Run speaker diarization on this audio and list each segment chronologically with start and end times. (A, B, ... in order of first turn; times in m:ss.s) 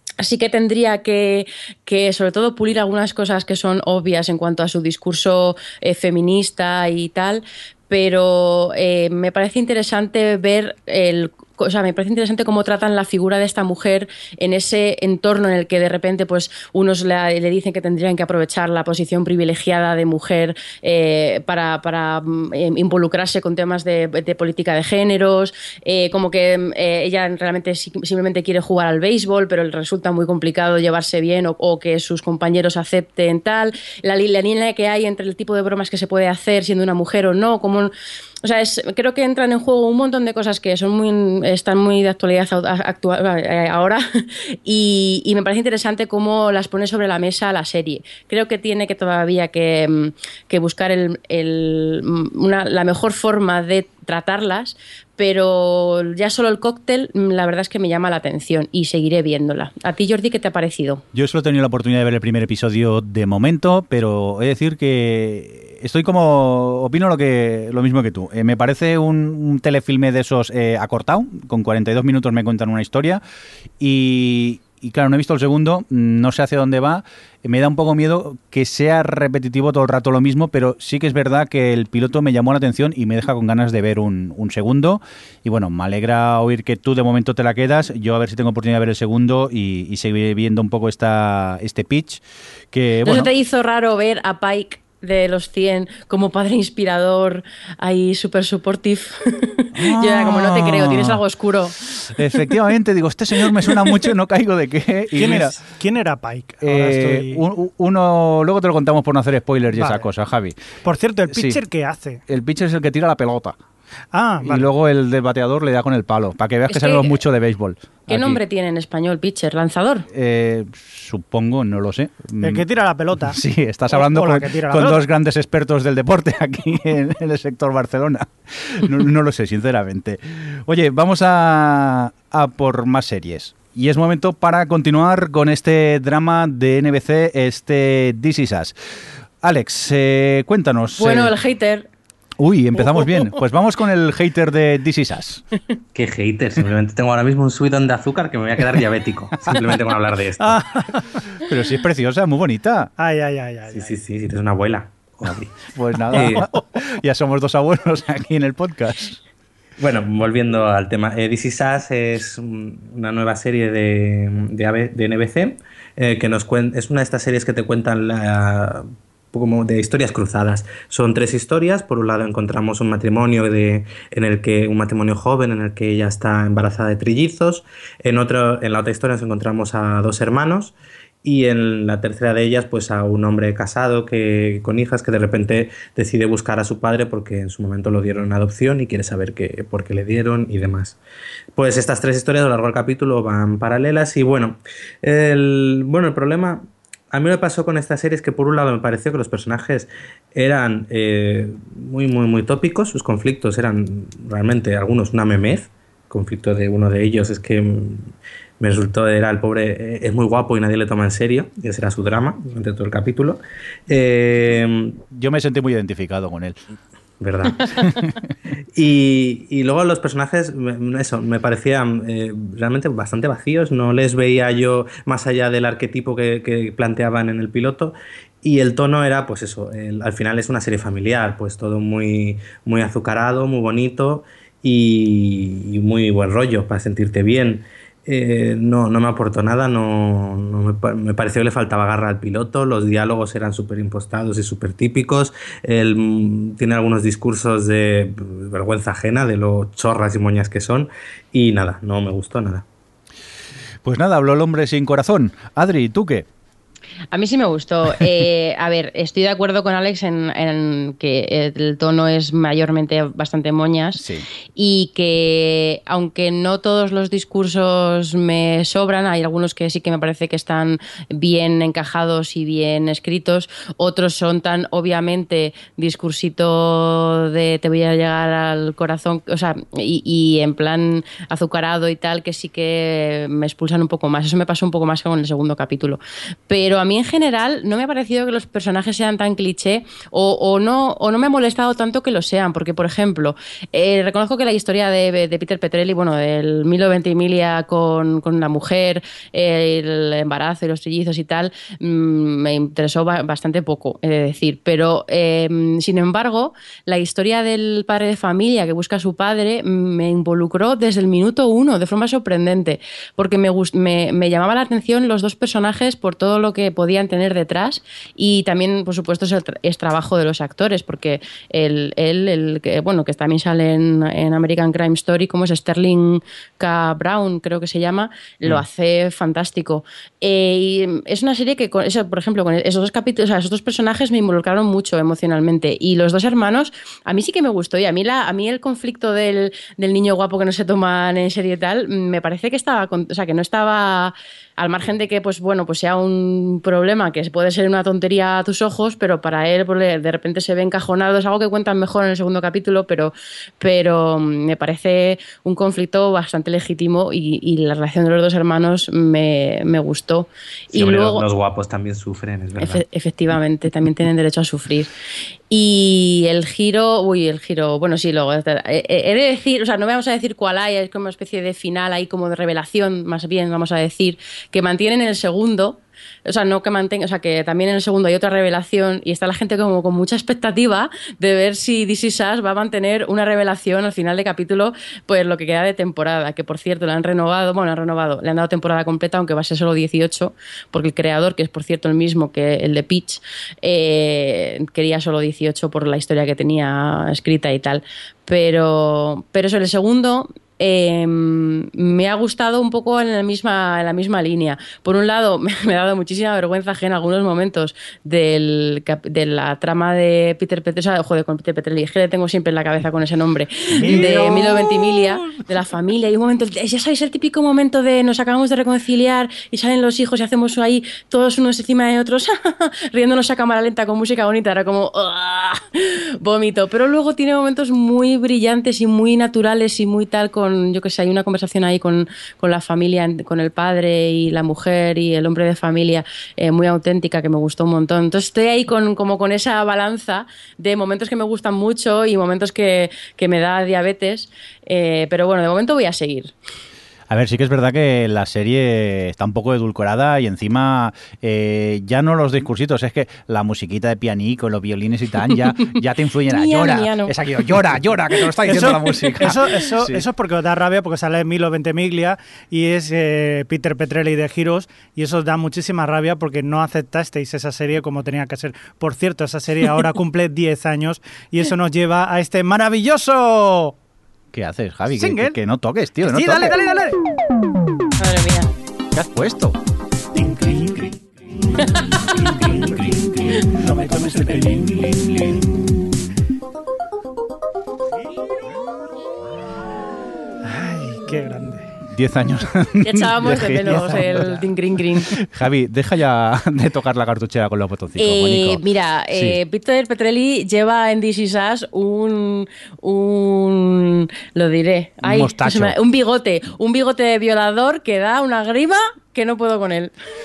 0:00.2-0:37.9 A
0:38.4-1:01.0 A
1:01.1-1:13.2 B
1:13.8-1:33.3 B
1:33.0-1:41.8 A
1:39.7-1:41.2 B
1:41.8-1:45.6 B
1:45.1-1:47.4 C
1:46.6-1:50.5 B
1:49.7-1:50.1 C
1:50.8-1:52.2 C
1:51.3-1:51.6 B
1:52.3-1:53.6 B
1:54.1-1:54.7 C
1:54.4-1:58.4 B
1:56.7-1:57.2 A
1:58.1-2:00.1 A
2:00.1-2:02.6 B
2:02.4-2:03.4 C
2:03.2-2:18.7 B
2:03.9-2:05.0 C
2:19.4-2:21.3 B
2:21.0-2:21.8 A
2:22.4-2:25.4 B
2:25.9-2:30.6 D
2:30.4-2:31.2 C
2:31.4-2:32.9 B
2:33.0-2:34.0 C
2:33.7-2:35.5 D
2:35.7-2:39.2 B
2:36.1-2:36.4 D
2:39.8-3:11.0 D
3:11.6-3:35.0 D
3:35.1-3:36.6 B
3:37.2-3:37.8 D
3:37.8-3:38.1 B
3:38.7-4:12.6 D
4:13.8-4:16.2 B
4:17.1-4:24.0 A
4:23.9-4:24.3 B
4:24.6-6:01.2 A
6:00.7-6:02.8 D
6:02.6-6:04.9 A
6:05.5-7:26.3 A
6:53.7-6:55.4 B
7:27.1-7:40.0 B
7:36.3-7:37.1 A
7:38.4-7:53.7 C
7:54.3-7:56.6 B
7:54.9-7:55.4 C
7:56.0-7:57.0 C
7:58.0-7:58.5 A
7:58.9-7:59.6 B
8:00.2-8:00.9 E
8:01.7-8:05.5 E
8:10.4-8:11.7 C
8:11.9-8:14.3 B
8:12.8-8:15.1 A
8:13.7-8:14.4 C
8:15.0-8:19.4 B
8:18.0-8:29.9 A
8:25.0-8:25.8 B